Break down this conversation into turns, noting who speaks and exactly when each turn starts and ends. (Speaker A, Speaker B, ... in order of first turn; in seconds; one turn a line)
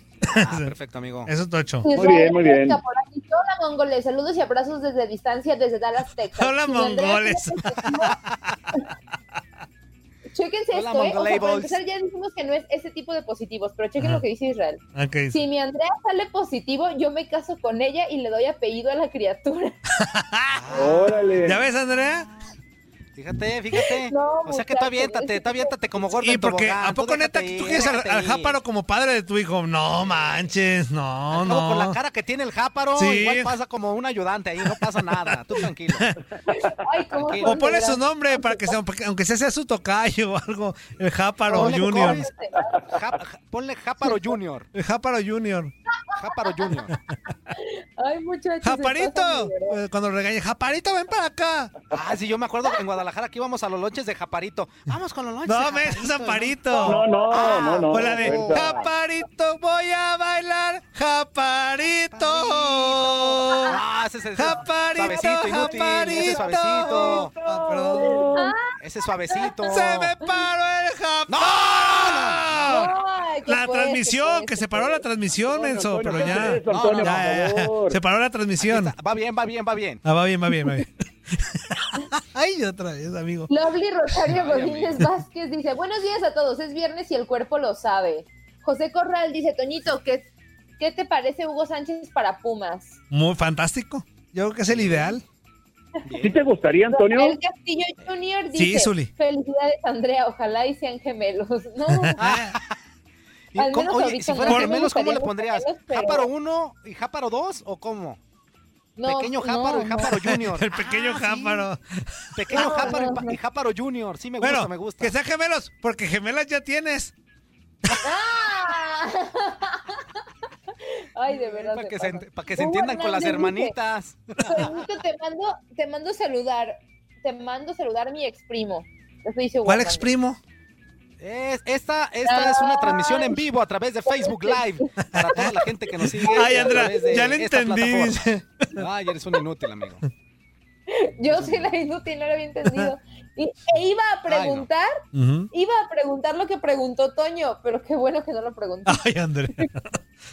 Speaker A: 0.2-1.3
Speaker B: 0.3-0.7
Speaker B: 1.2-1.9
Speaker C: 1.8-8.2
Speaker D: 1.9-2.8
Speaker B: 6.3-7.9
Speaker A: 7.9-8.4
Speaker C: 10.3-14.8
Speaker A: 10.7-11.8
Speaker B: 14.9-15.4
Speaker C: 15.3-19.8
Speaker B: 20.0-20.6
Speaker A: 20.5-21.6
Speaker D: 20.7-21.6
Speaker B: 21.4-22.3
Speaker A: 23.1-28.6
Speaker C: 23.8-25.7
Speaker B: 26.2-32.0
Speaker A: 30.0-30.5
Speaker A: 31.3-36.1
Speaker B: 33.0-33.5
Speaker B: 34.7-36.2
Speaker C: 36.5-38.7
Speaker A: 37.1-37.6
Speaker B: 37.4-42.3
Speaker A: 41.5-42.3
Speaker C: 41.5-43.0
Speaker A: 42.8-44.7
Speaker B: 44.7-45.7
Speaker C: 46.0-46.9
Speaker A: 46.2-47.0
Speaker C: 47.5-49.8
Speaker B: 48.6-51.7
Speaker A: 51.9-58.9
Speaker B: 55.5-57.0
Speaker D: 56.8-58.8
Speaker C: 57.2-57.6
Speaker B: 57.9-63.8
Speaker A: 62.1-67.3
Speaker B: 64.3-68.1
Speaker D: 65.5-68.5
Speaker C: 68.0-68.8
Speaker A: 68.8-70.1
Speaker C: 69.3-70.4
Speaker B: 69.6-72.9
Speaker A: 71.3-72.9
Speaker C: 72.6-75.0
Speaker B: 73.5-78.9
Speaker D: 75.4-78.0
Speaker A: 76.2-77.2
Speaker A: 78.6-80.0
Speaker B: 80.0-83.5
Speaker C: 83.5-93.0
Speaker A: 84.3-85.1
Speaker B: 93.1-95.2
Speaker A: 94.7-95.2
Speaker A: 96.0-96.4
Speaker D: 96.2-97.4
Speaker C: 96.9-102.2
Speaker B: 98.5-99.1
Speaker B: 101.9-102.6
Speaker A: 102.2-102.8
Speaker A: 103.5-108.2
Speaker C: 103.6-106.3
Speaker B: 104.5-104.8
Speaker C: 109.0-110.1
Speaker A: 109.0-111.7
Speaker B: 110.1-113.0
Speaker A: 112.4-115.1
Speaker C: 112.5-113.4
Speaker B: 114.4-117.1
Speaker C: 118.0-120.2
Speaker C: 120.9-123.8
Speaker A: 121.3-124.9
Speaker C: 124.4-130.1
Speaker B: 129.6-130.4
Speaker A: 131.2-138.2
Speaker C: 132.2-133.4
Speaker C: 134.1-135.5
Speaker B: 135.2-138.9
Speaker C: 136.2-137.3
Speaker A: 138.8-140.1
Speaker C: 140.9-145.0
Speaker A: 141.3-141.7
Speaker B: 142.7-142.9
Speaker A: 144.3-144.7
Speaker B: 145.1-145.5
Speaker C: 145.5-149.1
Speaker B: 148.8-149.9